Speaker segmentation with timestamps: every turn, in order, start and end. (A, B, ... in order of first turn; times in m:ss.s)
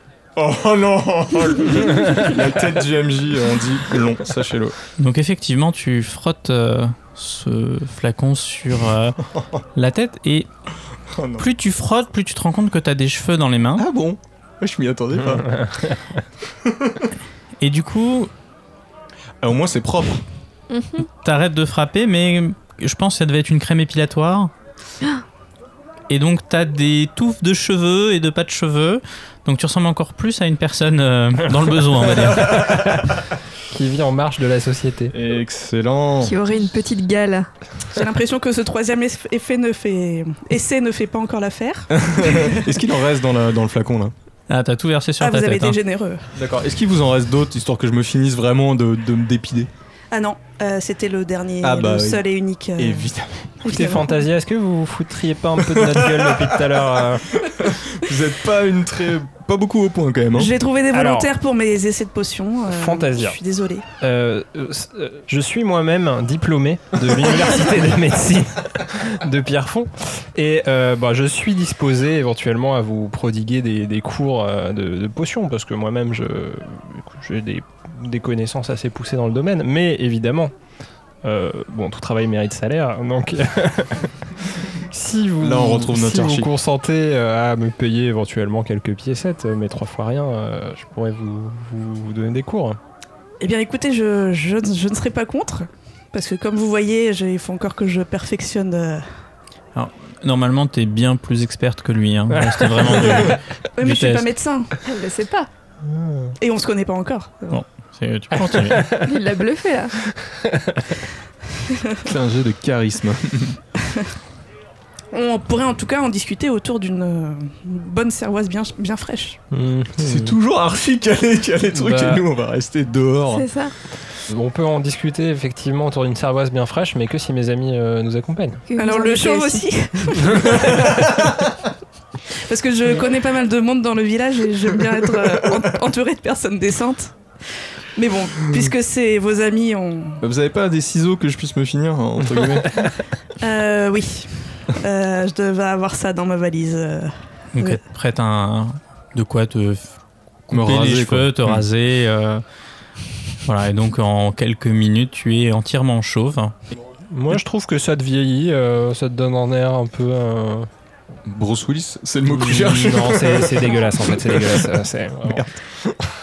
0:00.4-0:04.8 A
0:05.0-0:09.2 B
0:09.7-0:10.5 B
0:11.1-0:11.4 A
0:11.4-0:13.8 B
0:13.8-0:15.6 A
0:15.3-0:16.0 C
0:16.6-0:17.1 A
0:17.6-0:18.3 B
0:19.4-0:20.2 A
0:20.7-0:21.1 D
0:21.2-0:24.5 B
0:26.1-0:32.8 B
0:33.7-0:35.1 C
0:35.1-0:36.4 A
0:36.2-0:37.5 D
0:37.9-0:42.7 E
0:41.9-0:44.1 A
0:44.5-0:45.8 B
0:45.2-0:46.3 E
0:46.3-0:49.7 A
0:50.1-0:53.1 E
0:51.6-0:52.2 A
0:52.8-0:53.6 A
0:53.6-0:54.2 E
0:53.6-0:57.3 C
0:55.7-0:56.7 A
0:57.4-1:00.5 A
1:00.3-1:03.9 E
1:00.9-1:01.3 C
1:02.7-1:03.4 C
1:04.0-1:20.5 C
1:21.2-1:24.1 C
1:24.6-1:32.8 C
1:25.4-1:26.5 A
1:33.4-1:39.0 E
1:39.7-1:44.3 B
1:42.4-1:42.8 C
1:43.8-1:44.7 E
1:44.8-1:45.5 D
1:45.8-1:46.4 C
1:46.4-1:47.6 E
1:47.5-1:49.0 B
1:48.5-1:49.1 C
1:49.0-1:50.1 D
1:50.2-1:51.0 C
1:52.0-1:53.6 A
1:55.1-1:59.4 E
1:59.5-2:00.3 C
2:00.0-2:03.5 A
2:01.7-2:02.2 C
2:03.3-2:03.7 D
2:04.3-2:08.6 C
2:08.7-2:09.6 D
2:08.8-2:11.3 E
2:12.3-2:17.1 E
2:17.9-2:20.2 E
2:20.2-2:22.8 A
2:23.4-2:27.7 E
2:27.5-2:29.9 B
2:30.5-2:32.4 B
2:30.5-2:31.6 A
2:33.4-2:36.5 B
2:37.1-2:40.7 C
2:41.3-2:44.7 A
2:42.3-2:45.5 C
2:45.3-2:46.0 A